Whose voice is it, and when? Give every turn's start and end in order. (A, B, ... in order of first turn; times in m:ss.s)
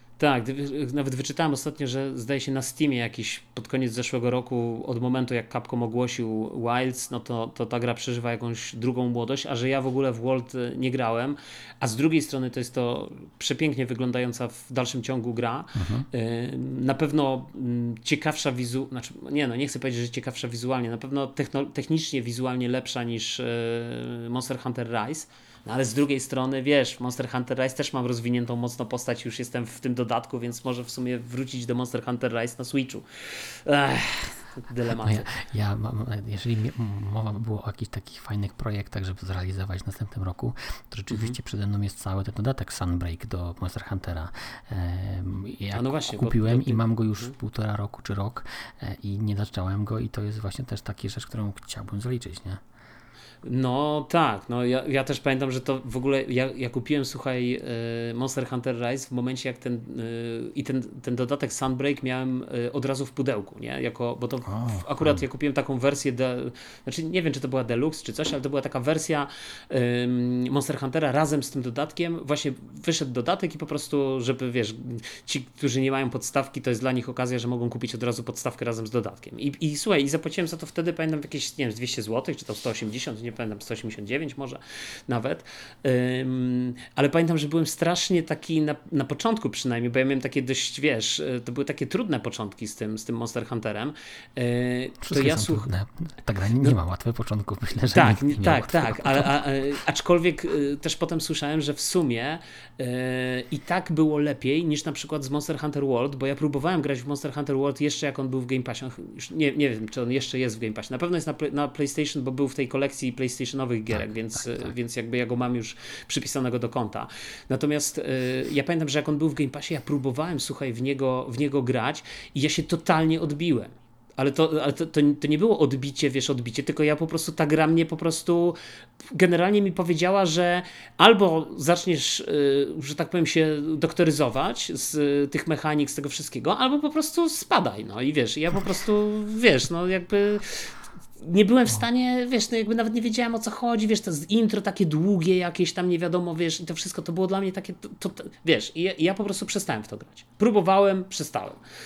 0:00.2-0:35.3 A
0:15.7-0:16.1 B
0:34.9-0:52.6 B
0:41.1-0:41.3 A
0:45.7-0:47.3 A
0:53.4-1:35.7 A
1:04.5-1:05.2 B
1:35.0-1:39.4 B
1:37.9-2:08.6 A
1:53.9-1:54.7 B
2:09.1-2:31.6 A